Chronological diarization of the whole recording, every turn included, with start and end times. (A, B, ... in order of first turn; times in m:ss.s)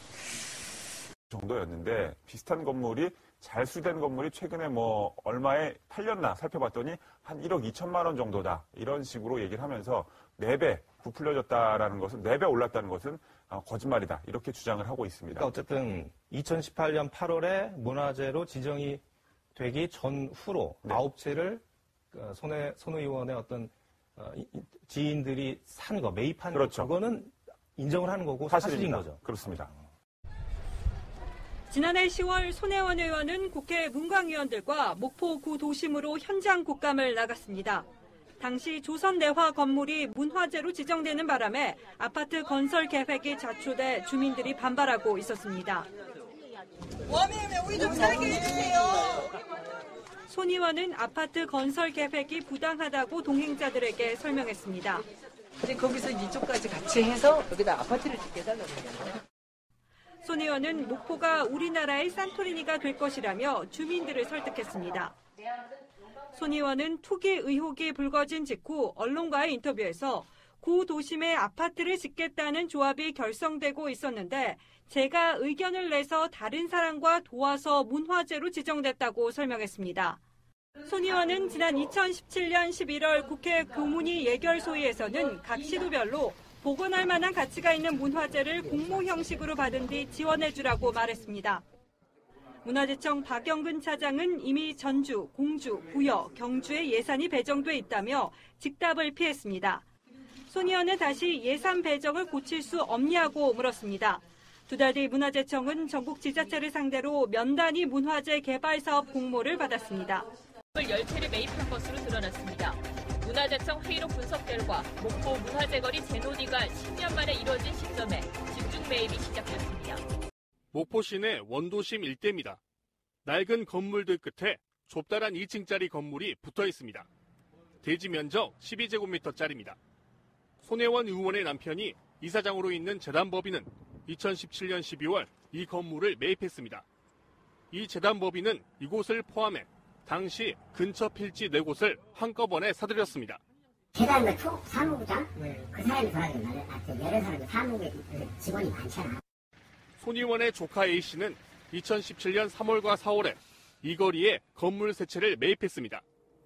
0:01.3-0:15.5 A
0:15.3-0:19.0 B
0:19.6-0:21.6 B
0:22.1-0:29.2 B
0:26.5-0:26.9 A
0:28.5-0:29.7 A
0:31.7-0:37.9 C
0:38.4-0:45.9 C
0:47.9-0:48.4 D
0:50.3-0:55.0 C
0:55.6-0:59.1 D
1:00.2-1:05.2 C
1:06.4-1:20.2 C
1:20.9-1:31.6 C
1:32.6-1:39.8 C
1:40.5-1:50.3 C
1:50.8-2:00.0 E
2:00.7-2:02.6 F
2:03.2-2:07.1 F
2:07.8-2:09.8 F
2:10.6-2:16.8 F
2:17.7-2:23.4 F
2:24.0-2:29.2 G
2:30.0-2:36.0 F